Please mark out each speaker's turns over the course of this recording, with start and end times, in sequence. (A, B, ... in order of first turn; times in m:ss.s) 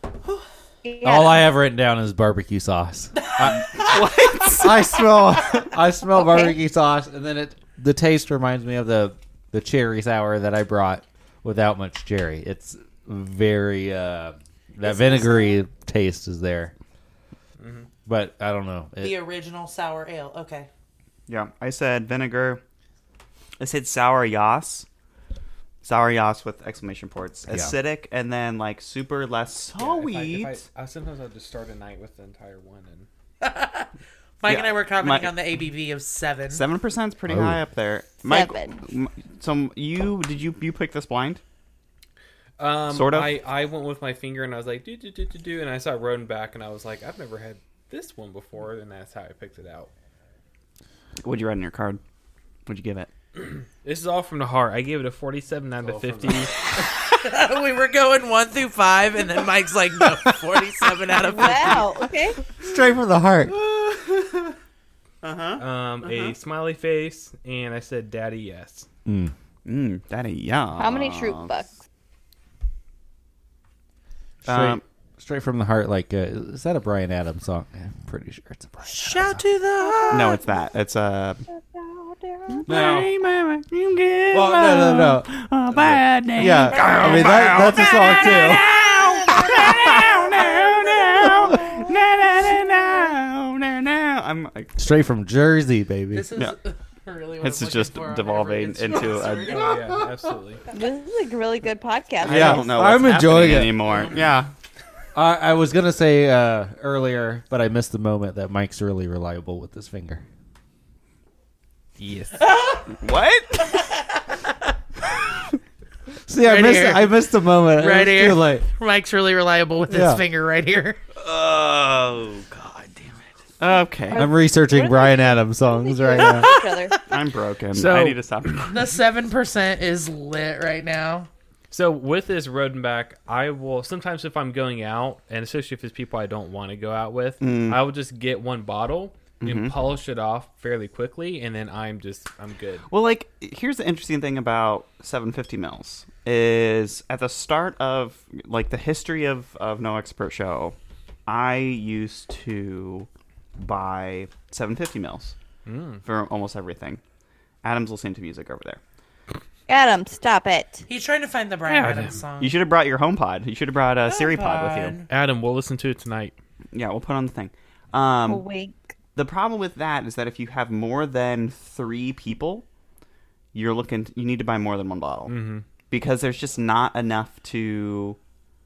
0:00.8-0:01.5 A
0:01.0-0:03.8 B
0:03.4-0:05.0 C
0:04.6-0:16.7 B
0:06.1-0:06.6 A
0:14.9-0:15.6 A
0:17.6-0:17.9 D
0:18.1-0:19.2 B
0:19.0-0:20.7 E
0:21.3-0:22.6 C
0:23.6-0:24.9 C
0:25.8-0:30.6 C
0:27.5-0:27.8 B
0:29.8-0:33.1 D
0:33.4-0:33.9 E
0:34.4-0:36.6 E
0:34.5-0:35.4 C
0:36.5-0:41.4 C
0:37.3-0:37.6 B
0:38.3-0:38.8 A
0:42.6-0:49.9 D
0:42.9-0:43.4 C
0:51.2-0:52.0 C
0:52.7-0:53.1 C
0:53.4-0:56.6 D
0:55.8-0:56.5 B
0:57.1-1:02.0 E
1:01.2-1:02.4 A
1:02.6-1:03.5 B
1:03.5-1:04.6 C
1:05.2-1:06.4 C
1:05.6-1:08.9 D
1:09.1-1:09.3 B
1:09.6-1:11.6 C
1:10.8-1:11.8 A
1:14.4-1:19.4 B
1:14.5-1:14.8 C
1:18.9-1:20.4 E
1:19.9-1:20.4 A
1:20.1-1:21.4 C
1:21.8-1:22.5 A
1:22.5-1:34.8 C
1:22.7-1:23.1 B
1:24.3-1:30.2 B
1:26.7-1:28.0 E
1:34.8-1:36.3 B
1:36.1-1:39.8 E
1:37.4-1:40.0 C
1:39.5-1:40.6 D
1:39.8-1:40.1 B
1:40.7-1:42.7 A
1:42.2-1:44.5 C
1:42.2-1:44.0 B
1:45.2-1:50.2 B
1:52.0-1:52.4 D
1:52.5-1:52.8 E
1:52.9-1:53.8 C
1:53.8-1:54.5 E
1:56.3-1:58.7 B
1:56.4-1:57.2 E
1:57.7-2:01.0 E
1:59.9-2:00.2 B
2:01.2-2:03.1 C
2:03.6-2:04.3 C
2:04.1-2:06.5 B
2:04.5-2:07.0 A
2:06.2-2:07.0 E
2:07.1-2:08.8 C
2:07.7-2:08.6 D
2:08.7-2:11.3 E
2:11.7-2:22.9 D
2:17.4-2:17.8 C
2:19.4-2:19.8 C
2:22.9-2:30.8 C
2:31.3-2:35.4 C
2:35.7-2:36.0 D
2:36.0-2:37.0 C
2:37.6-2:38.8 C
2:39.7-2:40.9 A
2:40.9-2:42.6 E
2:41.7-2:42.2 D
2:42.4-2:45.0 C
2:44.1-2:45.1 E
2:45.1-2:46.4 D
2:46.7-2:48.4 C
2:48.3-2:48.9 A
2:49.2-2:52.7 C
2:53.5-2:55.4 C
2:55.3-2:55.6 D
2:55.9-2:58.2 C